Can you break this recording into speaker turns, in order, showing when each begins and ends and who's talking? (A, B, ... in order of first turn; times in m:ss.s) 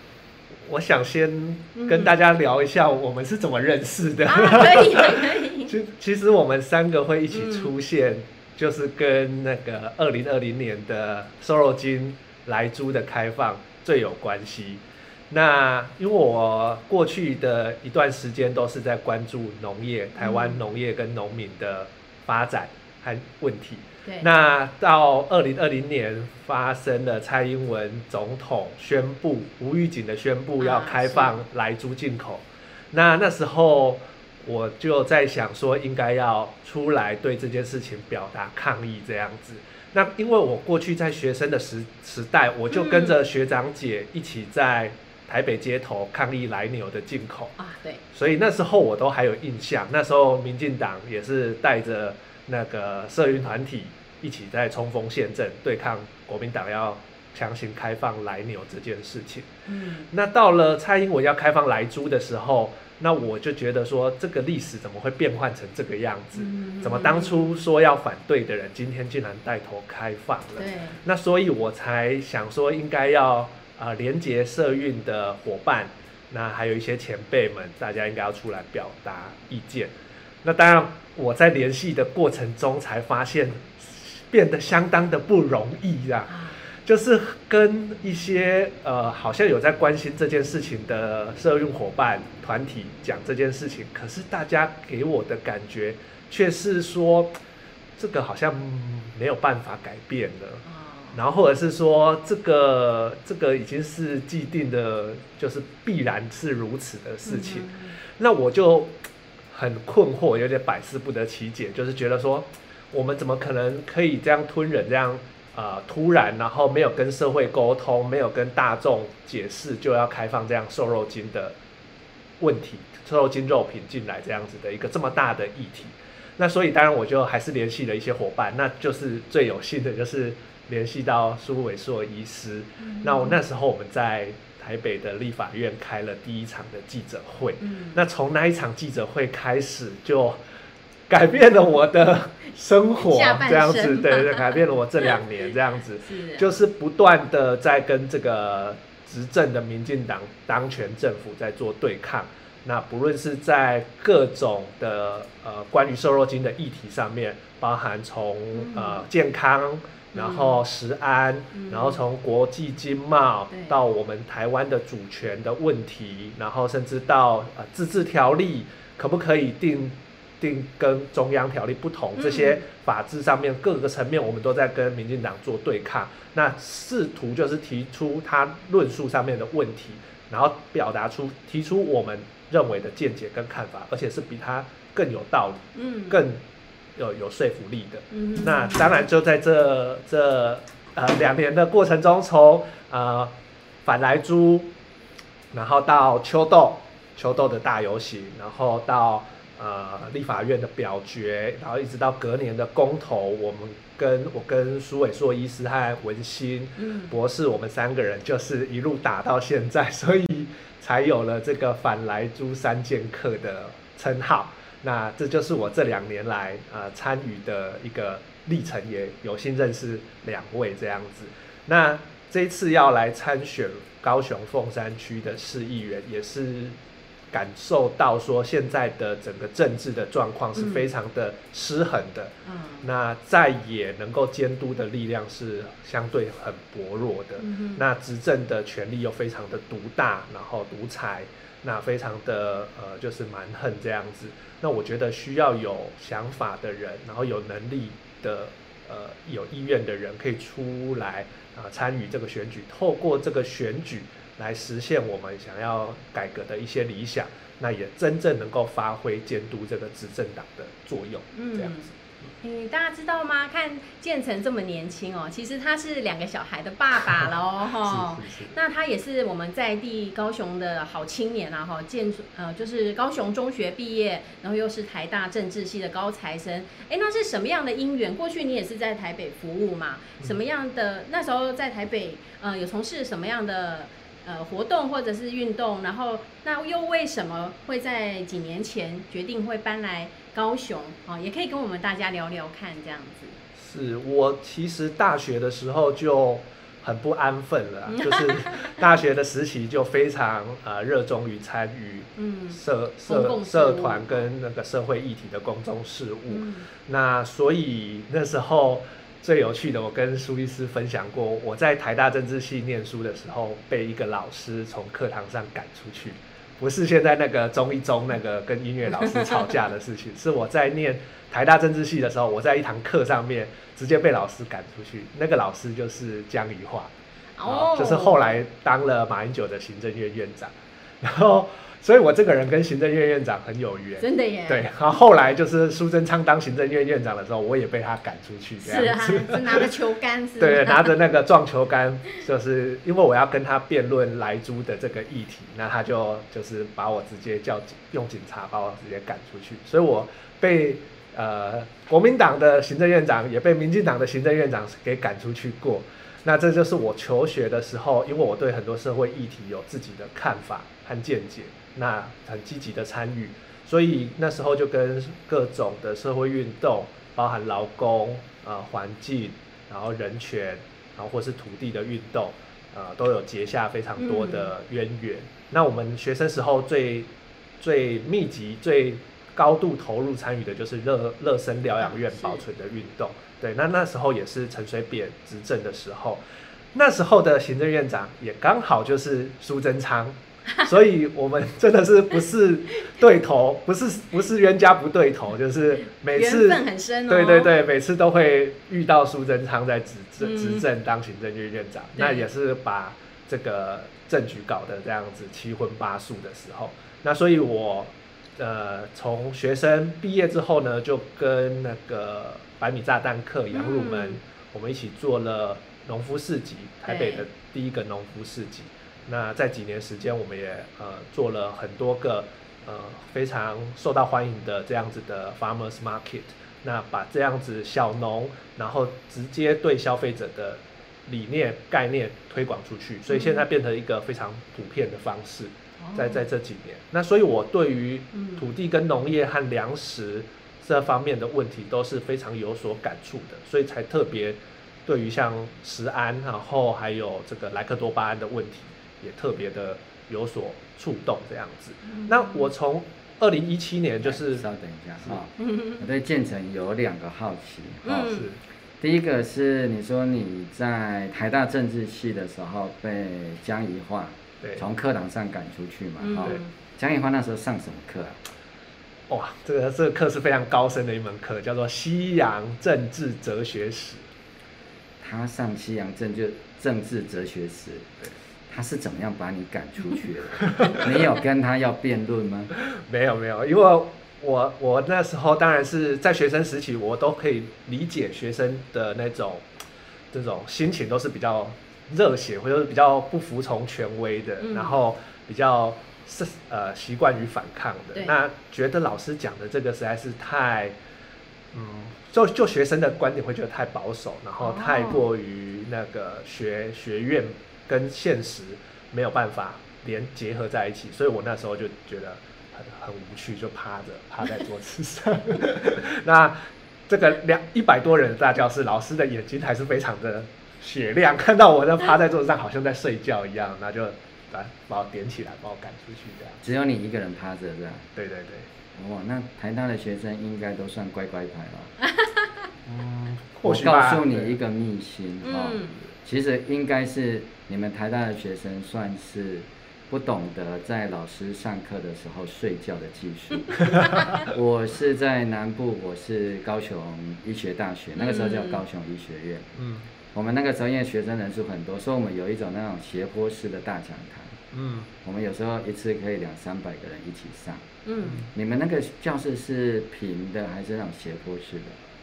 0:00.5-0:47.6 A
0:01.8-0:02.1 B
0:04.3-0:05.7 B
0:07.3-0:07.7 B
0:20.2-0:20.6 B
0:30.6-0:31.4 B
0:42.7-0:43.2 B
0:47.6-0:48.0 B
0:48.1-0:59.5 A
0:59.7-1:00.1 B
1:00.1-1:37.3 A
1:06.4-1:07.5 B
1:10.6-1:11.0 B
1:26.3-1:26.6 B
1:38.0-1:49.0 A
1:40.6-1:41.2 B
1:47.3-1:48.0 B
1:49.5-2:01.6 A
2:02.4-2:20.4 A
2:12.8-2:13.4 B
2:17.6-2:18.0 B
2:21.1-3:06.4 A
2:23.0-2:24.5 B
2:26.0-2:26.6 B
2:38.5-2:39.0 B
2:40.1-2:40.6 B
2:41.5-2:42.0 B
2:43.5-2:43.8 B
2:52.2-2:52.6 B
3:05.8-3:06.2 B
3:07.0-3:14.7 A
3:08.1-3:09.1 B
3:15.5-3:46.8 A
3:26.8-3:27.2 B
3:47.3-4:22.0 A
3:50.6-3:50.9 B
3:52.4-3:52.9 B
3:57.4-3:57.8 B
4:21.3-4:21.9 B
4:22.4-4:53.4 B
4:27.8-4:28.6 A
4:53.6-5:26.9 A
4:58.1-4:58.7 B
5:02.2-5:04.2 B
5:06.3-5:06.7 B
5:27.4-5:28.3 B
5:27.4-5:39.7 A
5:34.0-5:34.7 B
5:38.6-5:41.0 B
5:40.4-6:26.2 A
6:14.0-6:14.5 B
6:21.8-6:22.4 B
6:26.7-7:34.5 A
6:36.1-6:37.5 B
6:40.2-6:40.6 B
6:42.0-6:42.3 B
6:53.5-6:54.2 B
6:56.9-6:57.3 B
7:13.1-7:13.5 B
7:15.8-7:16.3 B
7:18.1-7:18.5 B
7:31.9-7:32.5 B
7:34.0-7:38.1 C
7:35.4-7:35.8 B
7:37.8-7:38.3 B
7:38.0-7:38.4 A
7:38.8-7:48.2 C
7:44.4-7:44.7 A
7:46.0-7:46.5 B
7:49.1-7:54.1 A
7:55.0-7:58.0 C
7:58.5-8:02.5 C
8:00.6-8:00.8 A
8:02.6-8:09.5 A
8:10.1-8:20.8 A
8:14.4-8:14.8 B
8:21.5-8:46.4 A
8:24.4-8:25.0 B
8:46.4-8:47.9 C
8:48.0-8:48.5 A
8:48.7-8:51.8 C
8:52.0-8:52.3 B
8:52.7-8:54.4 A
8:53.4-9:09.5 C
8:55.2-8:55.8 B
9:03.5-9:04.3 B
9:08.0-9:08.6 B
9:09.6-9:09.9 A
9:10.1-9:14.4 C
9:14.5-9:14.9 A
9:15.0-9:17.6 C
9:17.8-9:18.3 B
9:18.0-9:18.3 A
9:18.3-9:21.8 C